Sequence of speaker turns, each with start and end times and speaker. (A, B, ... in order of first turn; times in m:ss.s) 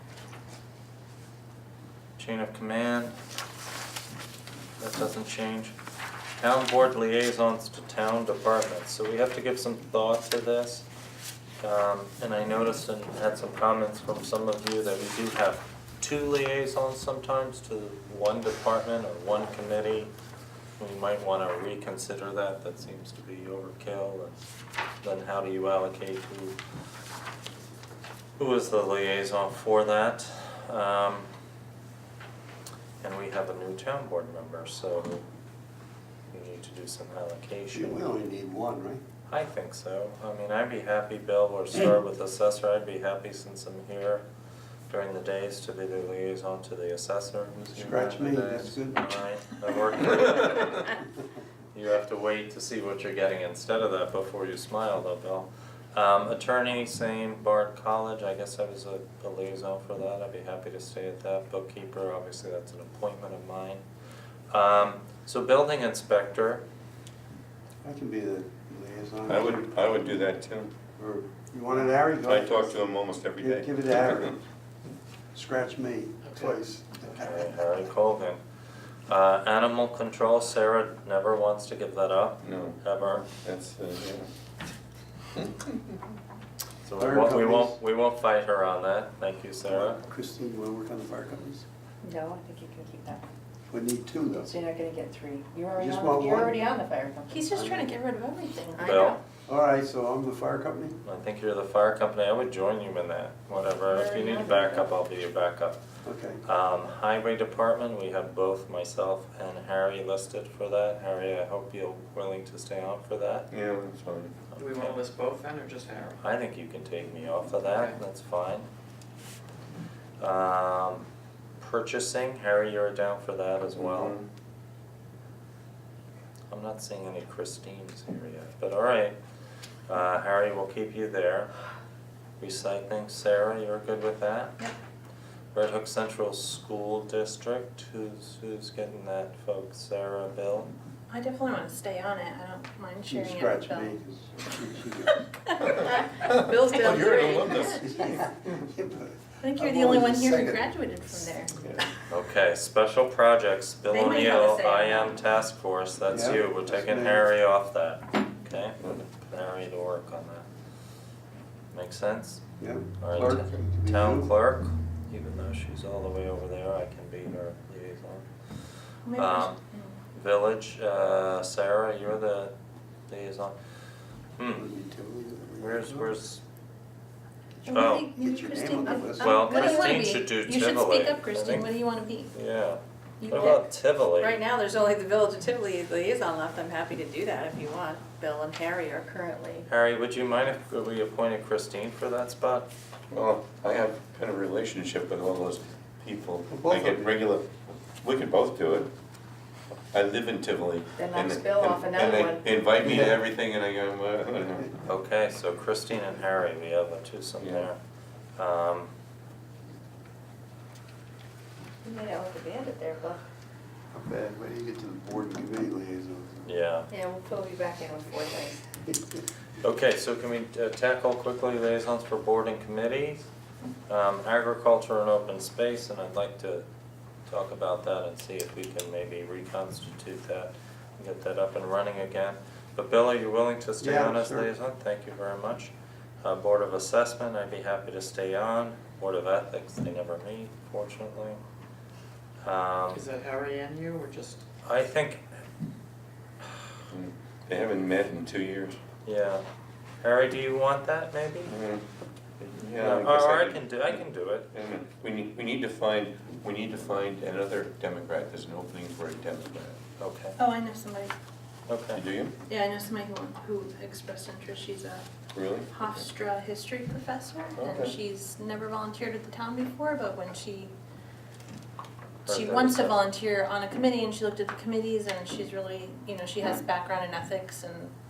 0:02.2-0:03.1 A
0:04.8-0:05.7 A
0:06.4-0:10.8 A
0:11.6-0:20.1 A
0:20.8-0:24.4 A
0:25.0-0:26.6 A
0:28.4-0:31.3 A
0:33.0-0:35.2 A
0:36.3-0:38.0 A
0:37.7-0:39.0 B
0:39.3-0:44.2 A
0:44.9-0:51.0 A
0:47.7-0:49.1 B
0:51.7-1:03.8 A
1:04.5-1:06.6 A
1:07.8-1:09.7 B
1:09.3-1:10.7 C
1:11.0-1:12.8 B
1:12.2-1:14.3 C
1:13.4-1:14.4 B
1:15.3-1:17.5 B
1:16.2-1:16.5 D
1:17.1-1:18.4 A
1:19.1-1:23.3 A
1:22.4-1:22.8 C
1:23.3-1:24.3 C
1:25.3-1:25.8 C
1:26.8-1:30.0 A
1:27.0-1:27.8 B
1:29.7-1:31.6 B
1:32.0-1:33.2 E
1:33.7-1:34.5 B
1:34.4-1:37.5 E
1:35.8-1:36.6 B
1:37.3-1:39.1 F
1:37.5-1:37.9 B
1:38.8-1:39.2 E
1:38.8-1:39.2 A
1:39.5-1:41.0 B
1:41.0-1:45.8 A
1:43.8-1:44.9 E
1:46.0-1:46.4 B
1:46.4-1:53.5 A
1:53.5-1:54.5 C
1:54.5-1:55.0 A
1:54.6-1:56.2 D
1:56.2-1:58.7 A
1:57.7-1:58.0 D
2:00.2-2:01.0 A
2:01.6-2:04.1 A
2:03.7-2:04.3 C
2:06.5-2:09.2 A
2:09.9-2:11.5 A
2:12.4-2:14.5 A
2:15.5-2:20.7 A
2:21.1-2:24.0 F
2:23.0-2:25.2 B
2:25.6-2:25.9 F
2:25.6-2:28.3 C
2:25.8-2:28.0 E
2:26.7-2:27.6 F
2:27.8-2:30.7 B
2:29.4-2:31.6 F
2:32.1-2:40.4 A
2:33.9-2:35.1 F
2:36.1-2:37.3 B
2:41.7-2:42.4 A
2:42.6-2:44.3 B
2:43.0-2:48.2 A
2:49.0-2:50.0 F
2:49.1-2:49.6 A
2:50.1-2:52.5 A
2:53.1-2:53.5 A
2:54.4-2:54.6 A
2:54.5-2:56.1 B
2:55.6-2:56.4 A
2:57.6-3:02.3 F
2:57.7-2:58.1 A
2:57.7-2:59.3 B
2:59.1-2:59.9 E
2:59.2-3:01.7 A
3:02.3-3:04.4 A
3:03.2-3:03.6 F
3:04.2-3:09.7 E
3:09.7-3:12.7 A
3:13.1-3:18.9 C
3:16.5-3:17.1 B
3:19.9-3:24.7 C
3:20.9-3:22.6 E
3:22.8-3:23.2 B
3:24.8-3:27.8 A
3:27.4-3:27.7 C
3:28.4-3:28.9 A
3:31.8-3:33.2 E
3:33.9-3:36.5 B
3:36.4-3:36.9 A
3:36.9-3:38.6 E
3:38.9-3:39.2 B
3:39.6-3:43.2 A
3:43.9-3:46.6 A
3:47.3-3:55.7 A
3:53.8-3:54.5 B
3:56.2-4:01.4 A
4:02.4-4:03.0 A
4:02.9-4:04.4 D
4:04.6-4:05.2 A
4:06.9-4:08.8 C
4:09.0-4:09.4 A
4:10.0-4:11.5 A
4:11.5-4:11.8 C
4:12.4-4:19.8 C
4:12.7-4:14.5 A
4:20.0-4:20.4 A
4:20.4-4:21.1 F
4:21.7-4:22.0 A
4:21.9-4:22.3 C
4:22.4-4:25.0 F
4:25.3-4:26.1 C
4:25.7-4:30.7 F
4:27.6-4:27.9 C
4:32.2-4:33.0 A
4:32.2-4:37.9 F